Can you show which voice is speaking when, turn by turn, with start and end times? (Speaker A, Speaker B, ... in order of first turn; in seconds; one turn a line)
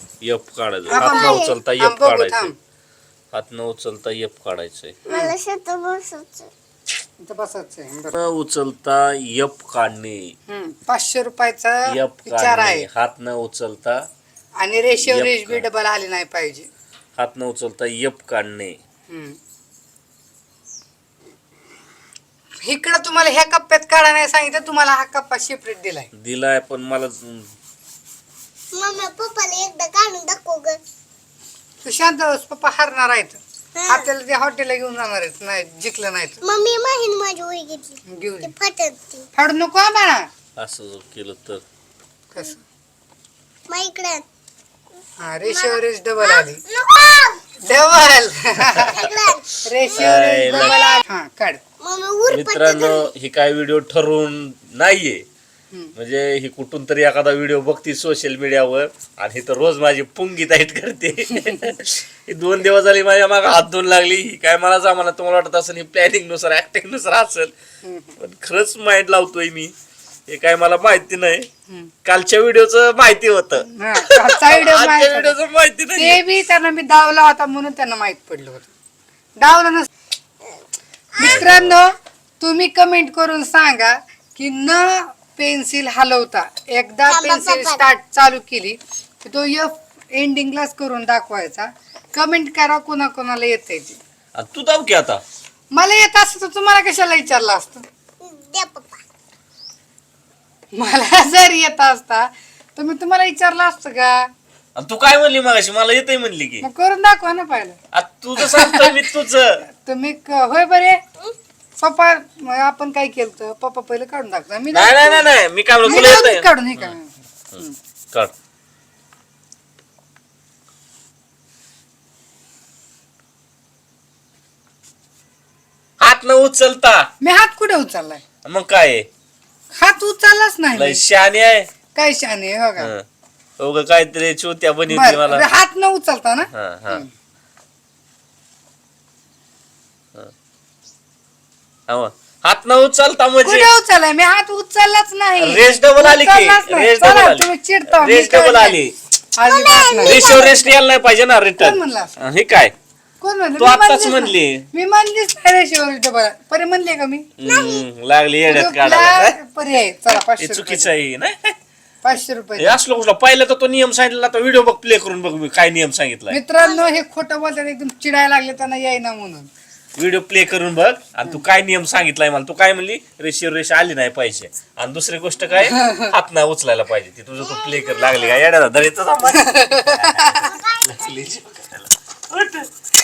Speaker A: 0.2-2.5
Speaker B: 0.9-2.5
Speaker C: 0.9-1.6
Speaker A: 3.3-5.0
Speaker C: 5.1-6.5
Speaker B: 5.1-5.3
Speaker B: 7.2-8.2
Speaker A: 8.1-10.3
Speaker B: 10.5-12.9
Speaker A: 11.9-14.0
Speaker B: 14.6-16.7
Speaker A: 14.9-15.7
Speaker A: 17.1-18.8
Speaker B: 19.1-19.4
Speaker B: 22.6-26.1
Speaker A: 26.1-27.5
Speaker C: 28.7-30.8
Speaker B: 31.8-36.4
Speaker C: 33.8-34.0
Speaker C: 36.4-39.3
Speaker B: 38.1-38.5
Speaker B: 39.4-40.3
Speaker A: 40.6-41.6
Speaker B: 42.3-42.6
Speaker C: 43.7-44.2
Speaker B: 45.2-46.6
Speaker C: 45.4-47.4
Speaker B: 47.6-49.0
Speaker C: 48.7-51.0
Speaker B: 49.6-51.6
Speaker A: 50.0-50.8
Speaker C: 51.8-53.1
Speaker A: 52.3-55.2
Speaker A: 56.0-67.5
Speaker B: 67.8-68.2
Speaker A: 68.2-69.7
Speaker A: 70.3-71.5
Speaker A: 72.0-76.2
Speaker B: 73.7-75.4
Speaker B: 75.9-78.7
Speaker B: 79.4-79.9
Speaker B: 81.2-94.0
Speaker A: 81.2-81.8
Speaker C: 87.1-87.8
Speaker A: 94.3-95.2
Speaker B: 95.7-97.8
Speaker C: 98.2-99.0
Speaker B: 100.7-104.3
Speaker A: 104.8-106.7
Speaker B: 106.6-107.8
Speaker A: 107.9-109.6
Speaker B: 108.4-109.0
Speaker B: 109.7-111.0
Speaker B: 111.8-115.3
Speaker A: 114.7-116.9
Speaker B: 115.8-117.8
Speaker A: 126.0-127.1
Speaker B: 127.2-128.2
Speaker A: 128.4-129.1
Speaker B: 129.7-131.0
Speaker A: 130.8-131.7
Speaker B: 131.9-132.9
Speaker A: 132.8-133.0
Speaker A: 133.6-135.5
Speaker B: 134.9-137.1
Speaker A: 136.5-137.0
Speaker A: 141.9-143.7
Speaker B: 143.4-148.8
Speaker A: 145.4-148.9
Speaker B: 149.3-150.7
Speaker C: 149.4-150.6
Speaker A: 150.0-152.7
Speaker B: 151.6-152.2
Speaker B: 153.2-157.3
Speaker A: 153.6-154.7
Speaker A: 157.4-159.4
Speaker C: 157.4-157.8
Speaker B: 158.5-160.9
Speaker A: 160.4-161.6
Speaker B: 162.0-162.8
Speaker A: 162.6-166.4
Speaker B: 166.3-169.5
Speaker A: 169.9-182.7
Speaker B: 175.6-176.1
Speaker C: 177.6-178.0
Speaker B: 179.3-180.5
Speaker C: 180.5-180.8